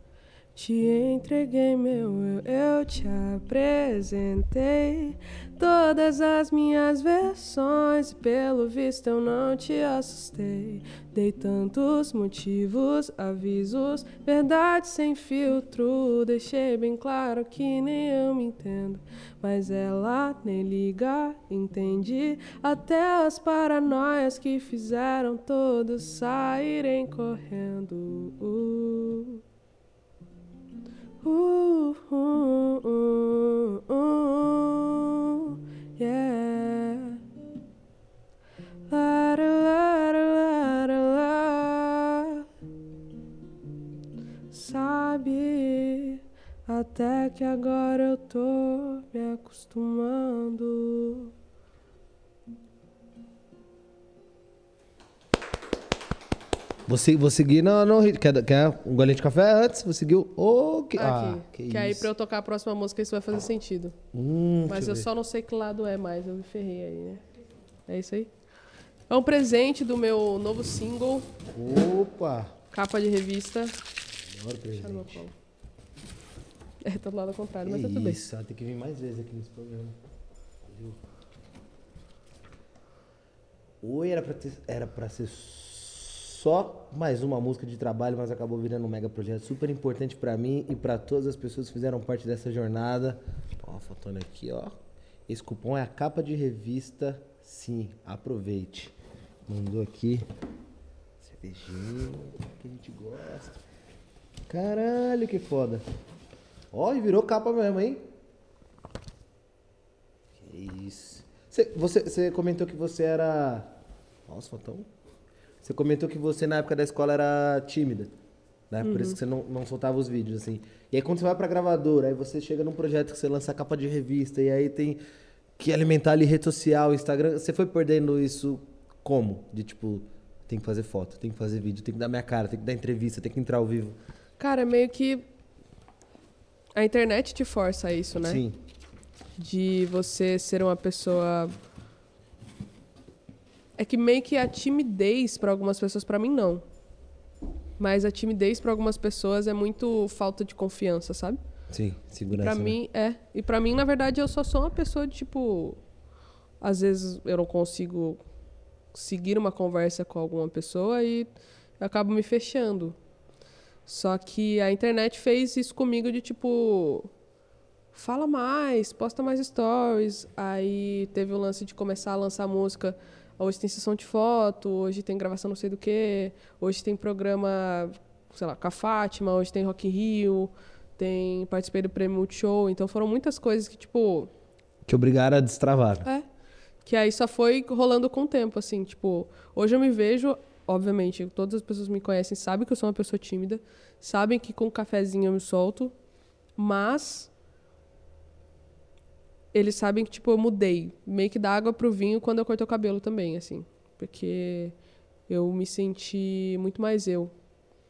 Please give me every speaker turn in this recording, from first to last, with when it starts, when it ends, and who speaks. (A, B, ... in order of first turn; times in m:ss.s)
0:00.6-0:29.4 A
0:31.2-0:37.2 A
0:38.9-0:42.5 A
0:44.5-0:51.3 A
0:56.9-1:02.1 B
1:01.0-1:04.0 A
1:04.1-1:05.1 B
1:04.7-1:07.2 A
1:07.9-1:08.3 A
1:09.1-1:11.3 A
1:11.5-1:12.5 B
1:12.7-1:13.8 A
1:14.3-1:15.2 B
1:14.8-1:15.3 A
1:16.8-1:18.2 A
1:17.6-1:20.0 B
1:20.7-1:21.0 B
1:23.8-1:38.9 B
1:39.5-1:40.2 B
1:41.2-1:43.6 B
1:44.5-1:45.8 B
1:46.7-1:48.0 B
1:50.4-1:53.7 B
1:54.3-1:54.9 B
1:55.6-1:58.1 B
1:58.7-2:05.0 B
1:58.8-1:59.2 A
2:05.6-2:14.0 B
2:14.4-2:15.3 A
2:16.8-2:18.4 A
2:18.2-2:18.6 B
2:19.4-2:21.5 A
2:23.8-2:26.6 A
2:27.8-2:31.4 A
2:31.7-2:32.8 B
2:32.4-2:35.8 A
2:36.6-2:38.2 A
2:38.9-2:43.0 A
2:43.9-2:47.1 A
2:47.9-3:04.3 A
3:04.9-3:06.0 B
3:06.8-3:15.9 A
3:16.6-3:17.3 A
3:19.5-3:24.7 A
3:25.3-3:27.3 A